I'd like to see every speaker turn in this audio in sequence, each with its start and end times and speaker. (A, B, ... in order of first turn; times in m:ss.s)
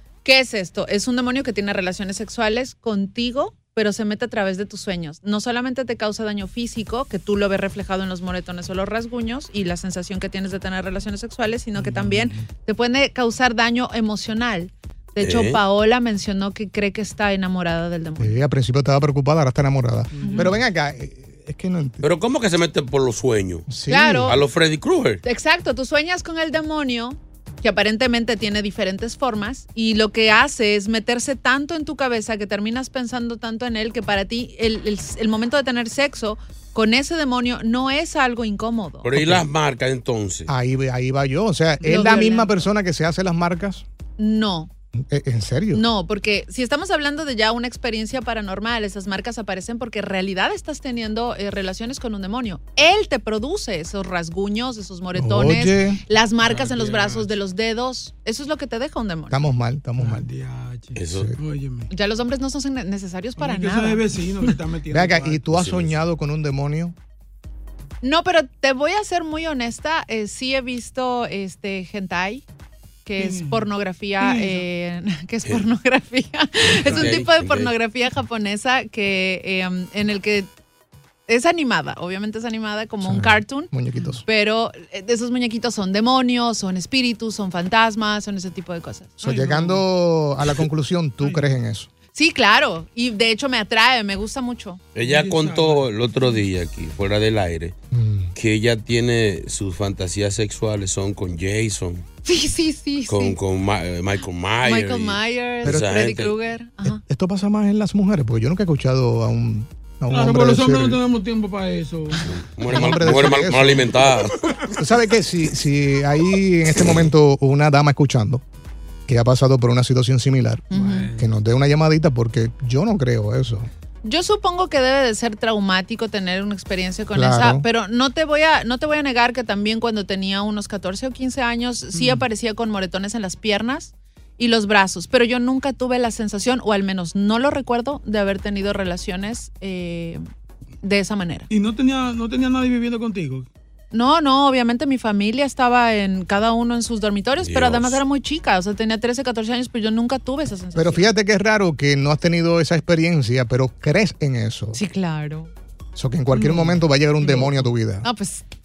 0:00.2-0:18.4 A
0:11.9-0:12.4 B
0:15.2-0:15.6 C
0:18.2-0:22.0 B
0:20.1-0:20.6 D
0:20.2-0:20.5 A
0:22.0-0:23.7 C
0:23.7-0:24.4 B
0:23.9-0:24.4 A
0:24.2-0:25.2 C
0:25.2-0:39.1 A
0:39.0-0:40.5 C
0:39.2-0:39.4 B
0:40.5-0:43.8 B
0:41.8-0:42.2 D
0:41.8-0:42.5 A
0:44.2-0:44.7 A
0:45.0-0:45.8 B
0:45.7-0:59.4 A
0:55.1-0:56.0 B
0:56.4-0:57.3 D
0:59.3-1:00.3 B
1:00.0-1:01.9 D
1:00.9-1:01.3 C
1:01.9-1:04.5 A
1:03.4-1:05.6 D
1:04.9-1:07.0 B
1:05.5-1:06.0 C
1:08.0-1:12.4 A
1:13.0-1:20.5 A
1:13.2-1:13.7 D
1:14.2-1:14.6 D
1:16.6-1:17.7 C
1:21.3-1:23.7 A
1:23.0-1:24.2 B
1:24.2-1:29.2 A
1:29.2-1:31.9 B
1:29.2-1:29.8 D
1:31.2-1:31.5 D
1:32.1-1:34.8 A
1:34.9-1:37.8 C
1:35.0-1:35.9 D
1:37.9-1:38.3 B
1:38.3-1:42.0 C
1:42.2-1:43.4 A
1:43.1-1:46.3 C
1:44.6-1:47.0 A
1:45.6-1:45.9 B
1:46.8-1:51.0 B
1:50.1-1:52.3 D
1:52.3-1:54.4 C
1:52.6-1:54.2 B
1:54.8-1:58.4 B
1:59.1-2:03.7 B
2:00.7-2:01.1 A
2:00.7-2:01.3 D
2:04.0-2:20.2 A
2:07.1-2:07.6 B
2:11.9-2:12.2 D
2:20.8-2:21.5 A
2:21.5-2:23.5 D
2:23.9-2:31.1 A
2:27.4-2:28.0 C
2:30.7-2:34.8 B
2:34.7-2:35.5 A
2:36.0-2:38.1 B
2:36.3-2:37.7 D
2:38.0-2:38.4 A